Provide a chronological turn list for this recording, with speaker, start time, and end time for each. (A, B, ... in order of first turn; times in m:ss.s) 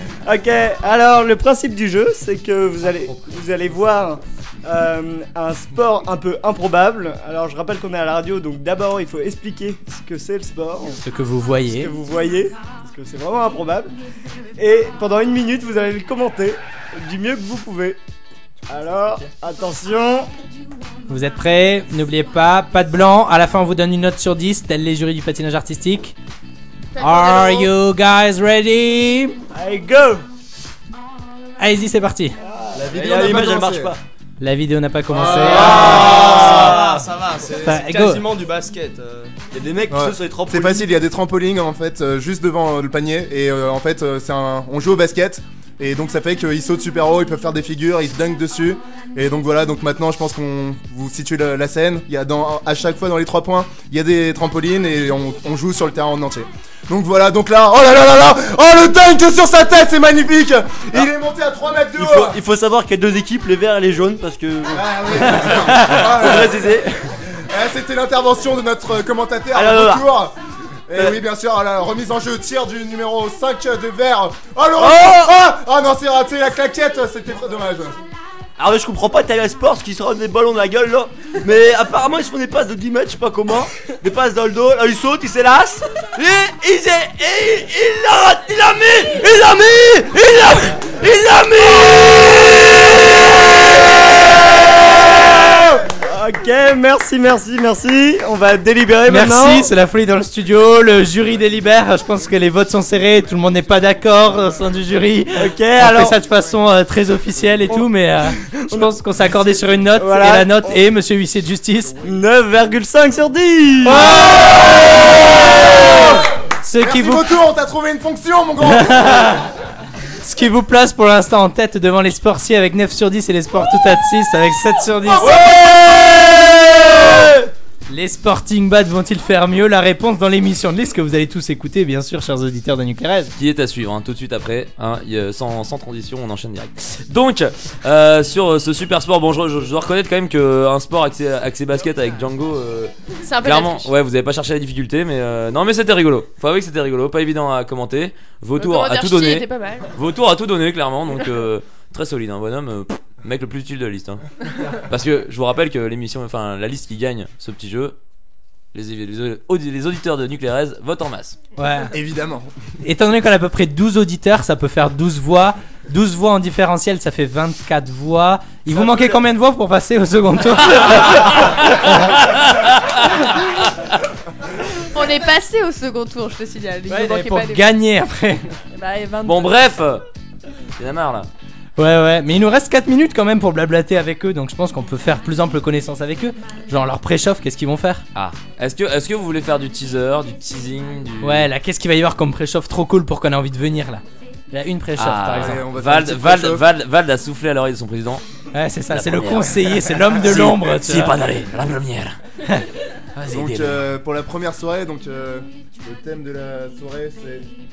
0:00.2-0:11.0 A
0:11.0-0:11.9 B
0:11.7-0:13.9 A
0:14.6-0:18.0 A
0:18.7-0:20.3 A
0:21.1-0:26.2 B
0:27.0-0:27.7 C
0:27.0-0:29.4 B
0:29.5-0:30.2 A
0:31.6-0:32.4 B
0:32.4-0:34.0 A
0:32.8-0:34.0 D
0:34.4-0:36.0 B
0:35.2-0:37.0 A
0:35.5-0:39.3 E
0:35.5-0:36.6 D
0:37.6-0:38.2 B
0:39.5-0:40.9 A
0:39.9-1:02.4 D
1:02.0-1:06.9 A
1:04.7-1:06.7 D
1:05.7-1:06.0 B
1:07.3-1:10.4 D
1:09.5-1:10.0 A
1:10.9-1:18.0 D
1:14.8-1:15.3 A
1:18.6-1:39.7 A
1:39.1-1:52.0 B
1:45.4-1:46.2 A
1:48.6-1:48.9 A
1:50.0-1:50.8 A
1:52.0-1:55.9 A
1:53.9-1:54.6 B
1:56.6-1:57.3 B
1:56.8-1:59.4 D
1:58.6-1:59.5 B
2:00.2-2:05.4 B
2:05.2-2:07.5 A
2:07.9-2:13.3 B
2:13.4-2:38.0 F
2:23.2-2:23.9 C
2:28.6-2:29.9 C
2:38.7-2:41.4 F
2:41.6-2:41.9 B
2:41.9-2:42.5 D
2:42.8-2:52.2 B
2:50.8-2:53.0 F
2:54.9-2:57.7 C
2:56.9-2:58.5 B
2:58.7-2:59.8 C
2:59.2-3:00.0 F
3:00.8-3:01.3 F
3:01.8-3:08.0 B
3:08.2-3:11.5 F
3:11.2-3:15.6 B
3:15.0-3:18.2 F
3:15.4-3:16.6 D
3:18.5-3:21.2 B
3:18.9-3:22.2 F
3:23.2-3:23.4 B
3:23.3-3:27.5 D
3:23.3-3:23.8 F